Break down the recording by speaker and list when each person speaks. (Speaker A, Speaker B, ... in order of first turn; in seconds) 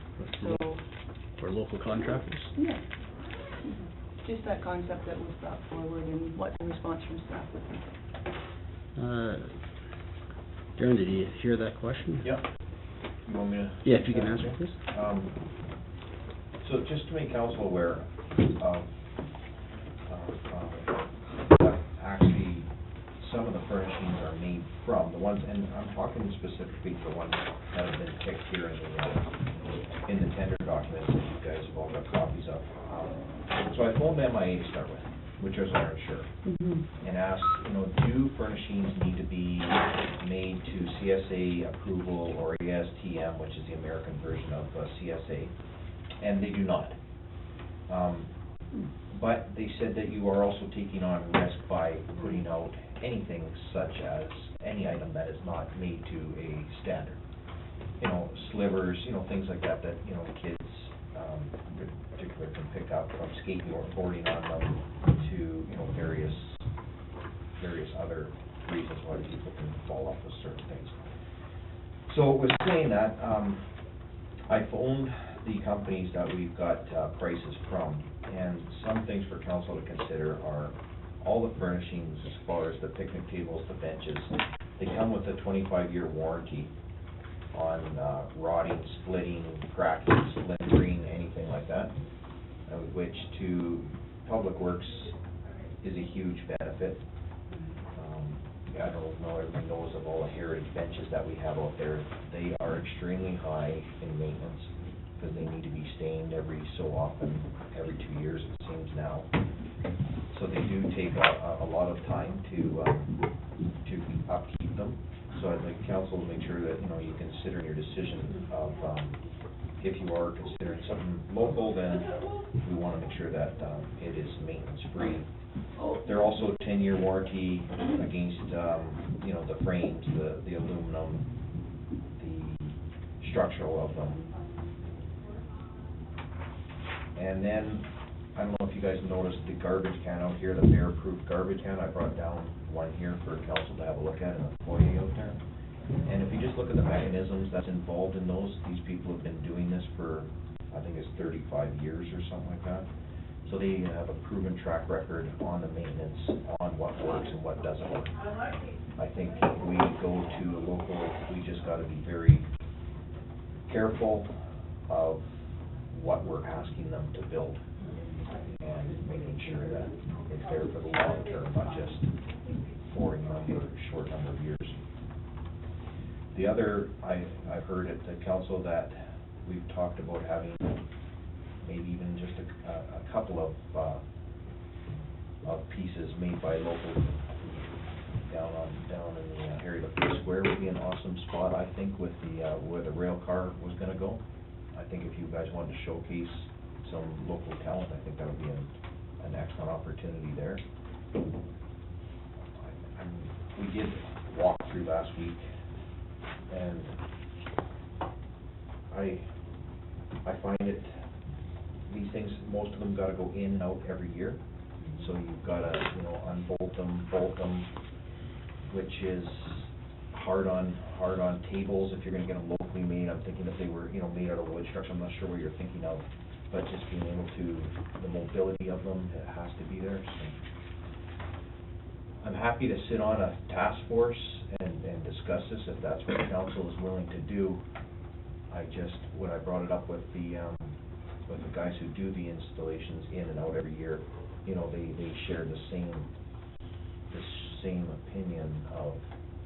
Speaker A: 0.2-0.7, 1.4-2.5, 8.9-9.5, 10.8-12.3, 13.8-14.8
Speaker B: 0.3-0.8, 2.5-2.8, 3.6-7.7, 36.5-36.8
Speaker C: 13.2-15.4, 16.6-18.9, 20.1-29.4, 30.0-36.4, 37.0-45.5, 46.2-47.0, 47.9-48.3, 49.1-57.2, 58.0-66.6, 67.6-71.2, 72.1-73.7, 74.5-86.7, 87.5-91.9, 92.7-95.2, 95.8-97.0, 97.9-109.3, 110.3-113.2, 113.8-119.2, 119.8-125.3, 126.0-131.3, 132.1-134.3, 137.1-145.4, 146.0-152.8, 153.4-158.2, 158.9-162.4, 163.7-164.3, 164.9-165.3, 165.9-167.6, 168.5-172.1, 172.8-174.8, 176.3-180.8, 181.6-184.0, 185.4-187.7, 188.2-194.2, 194.7-200.6, 202.6-205.4, 206.5-206.9, 208.9-209.2, 210.2-210.9, 211.9-214.4, 215.0-217.7, 218.7-230.3, 232.2-237.6, 238.5-246.1, 247.1-249.0